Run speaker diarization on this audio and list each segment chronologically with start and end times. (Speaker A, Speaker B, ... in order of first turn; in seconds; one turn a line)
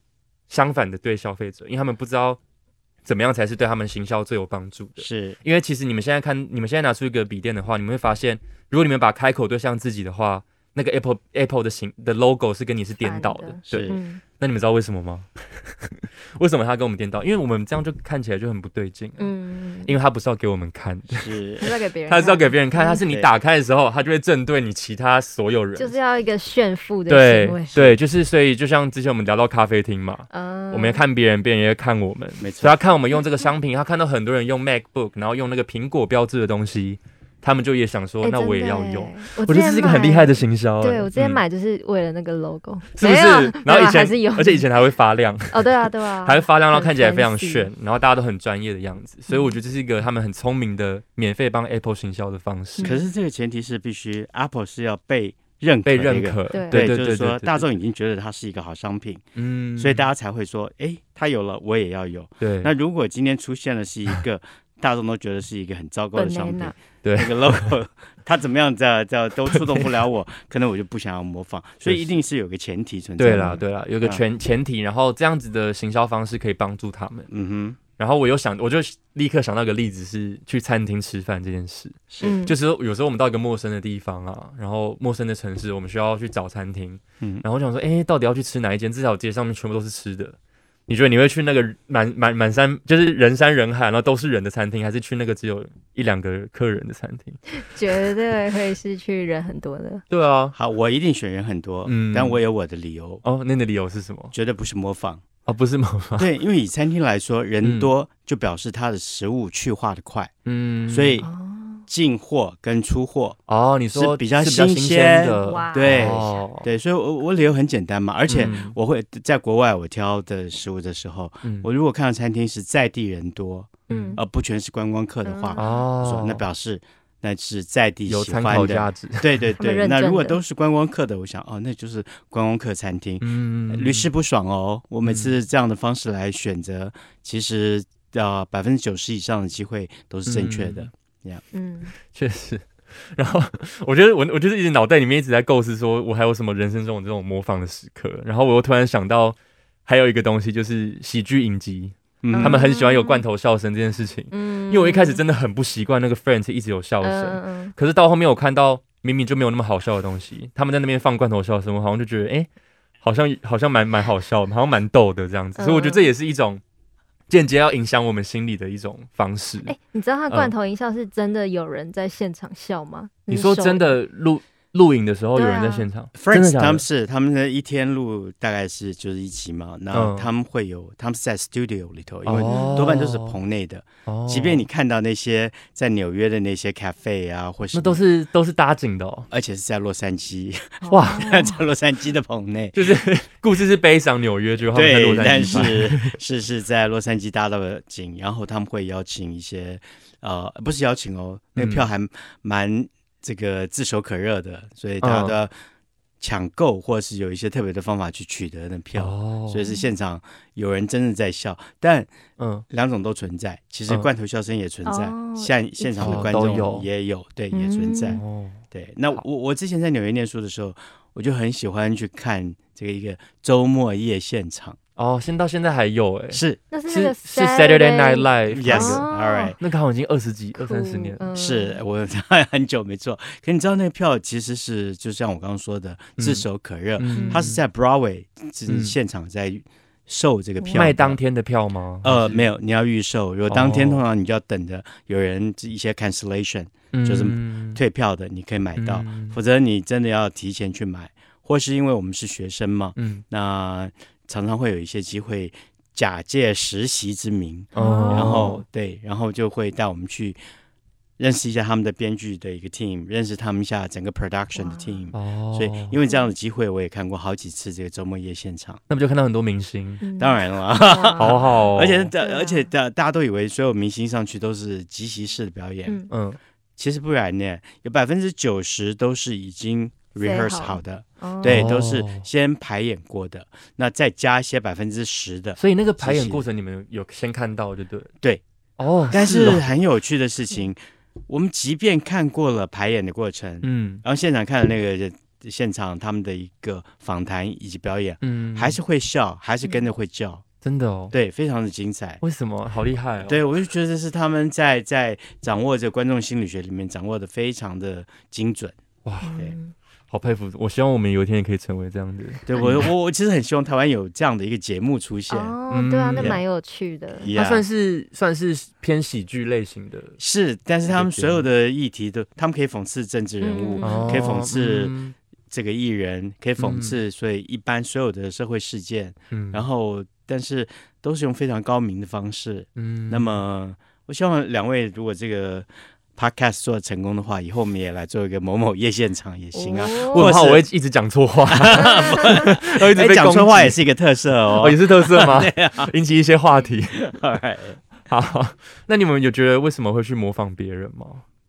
Speaker A: 0.5-2.4
Speaker A: 3.0-19.3
Speaker B: 5.0-5.4
Speaker C: 13.0-14.2
Speaker B: 13.7-14.0
Speaker C: 19.2-19.9
Speaker A: 19.9-21.3
Speaker B: 21.1-21.6
Speaker C: 21.6-23.0
Speaker A: 22.1-26.0
Speaker B: 23.0-23.3
Speaker C: 25.8-27.7
Speaker A: 27.1-41.4
Speaker B: 27.7-28.0
Speaker C: 30.3-31.0
Speaker B: 32.4-32.8
Speaker C: 38.2-44.6
Speaker A: 42.9-52.9
Speaker C: 45.5-47.7
Speaker C: 49.3-49.5
Speaker B: 52.8-59.2
Speaker A: 55.8-57.6
Speaker C: 56.5-56.8
Speaker A: 59.4-60.0
Speaker B: 59.8-74.2
Speaker A: 62.4-62.7
Speaker C: 66.1-66.8
Speaker A: 67.0-67.7
Speaker A: 69.5-69.9
Speaker A: 71.8-72.1
Speaker A: 73.2-77.3
Speaker C: 73.3-73.6
Speaker B: 77.3-77.8
Speaker A: 78.0-90.3
Speaker B: 82.1-82.3
Speaker C: 82.2-82.5
Speaker A: 90.9-97.4
Speaker C: 97.5-100.0
Speaker A: 100.1-100.5
Speaker B: 100.5-103.2
Speaker A: 101.8-102.4
Speaker A: 103.2-104.3
Speaker B: 104.3-105.2
Speaker A: 105.5-106.3
Speaker B: 106.2-110.3
Speaker A: 107.6-107.9
Speaker A: 110.5-111.2
Speaker B: 110.9-111.3
Speaker C: 111.2-111.8
Speaker B: 111.9-113.4
Speaker A: 113.5-116.7
Speaker B: 113.9-141.4
Speaker C: 115.4-116.4
Speaker A: 118.3-118.8
Speaker A: 121.4-121.7
Speaker A: 123.9-124.2
Speaker C: 123.9-124.2
Speaker C: 125.2-125.8
Speaker A: 125.5-126.4
Speaker A: 128.1-129.5
Speaker C: 129.6-130.4
Speaker A: 133.2-134.1
Speaker A: 135.0-135.3
Speaker A: 140.2-140.9
Speaker C: 141.5-141.9
Speaker A: 142.1-162.5
Speaker B: 152.2-152.6
Speaker C: 152.3-153.2
Speaker C: 154.3-155.2
Speaker C: 157.0-157.7
Speaker A: 163.0-166.6
Speaker C: 165.6-166.1
Speaker A: 167.3-169.7
Speaker C: 169.7-174.0
Speaker A: 173.3-176.8
Speaker C: 175.3-175.9
Speaker B: 176.1-188.0
Speaker A: 179.9-180.3
Speaker A: 182.2-183.3
Speaker C: 182.4-182.9
Speaker A: 184.1-184.6
Speaker A: 187.7-189.3
Speaker B: 189.3-193.0
Speaker C: 190.8-191.6
Speaker A: 190.9-191.3
Speaker A: 192.7-196.1
Speaker B: 194.7-205.5
Speaker A: 201.6-201.9
Speaker A: 205.0-205.4
Speaker B: 206.2-212.1
Speaker A: 208.9-209.6
Speaker A: 212.4-212.6
Speaker B: 212.7-218.2
Speaker C: 214.8-216.3
Speaker A: 216.0-216.9
Speaker C: 217.5-218.2
Speaker A: 218.1-218.6
Speaker B: 218.7-224.8
Speaker A: 224.9-229.0
Speaker B: 226.3-226.6
Speaker C: 226.7-229.5
Speaker B: 228.5-229.6
Speaker A: 229.6-231.3
Speaker C: 230.6-231.8
Speaker B: 231.3-241.2
Speaker A: 236.2-236.4
Speaker A: 237.0-237.6
Speaker C: 237.1-237.5
Speaker A: 238.7-238.9
Speaker C: 240.6-240.9
Speaker A: 240.7-242.4
Speaker B: 242.0-260.4
Speaker A: 243.5-244.0
Speaker A: 246.9-247.8
Speaker A: 248.8-249.3
Speaker A: 252.9-253.2
Speaker A: 257.8-258.6
Speaker C: 257.8-258.6
Speaker B: 261.2-268.8
Speaker C: 264.6-265.0
Speaker A: 265.1-266.0
Speaker C: 266.1-266.3
Speaker A: 268.9-270.0
Speaker C: 270.0-271.4
Speaker B: 270.2-276.0
Speaker A: 271.2-272.1
Speaker C: 272.2-272.7
Speaker A: 276.1-276.4
Speaker B: 276.8-286.4
Speaker C: 280.2-281.7
Speaker A: 281.4-282.2
Speaker A: 285.6-288.1
Speaker A: 288.8-289.6
Speaker B: 289.1-300.4
Speaker A: 293.6-294.0
Speaker A: 298.2-298.8
Speaker A: 300.6-301.1
Speaker B: 301.1-302.2
Speaker A: 302.2-303.4
Speaker B: 303.2-308.8
Speaker A: 309.0-309.3
Speaker C: 309.2-309.7
Speaker A: 310.1-312.9
Speaker B: 312.4-315.5
Speaker C: 315.3-317.3
Speaker A: 315.7-316.4
Speaker B: 316.2-316.4
Speaker B: 317.2-317.6
Speaker A: 317.3-320.2
Speaker B: 320.2-324.9
Speaker A: 320.9-321.4
Speaker C: 323.4-324.3
Speaker A: 323.8-325.1
Speaker B: 325.5-340.6
Speaker A: 326.6-327.0
Speaker A: 329.3-329.6
Speaker A: 332.8-333.3
Speaker C: 339.5-340.3
Speaker A: 339.9-343.8
Speaker B: 341.5-345.9
Speaker C: 341.8-342.2
Speaker A: 344.5-347.1
Speaker B: 347.0-347.8
Speaker A: 348.1-351.2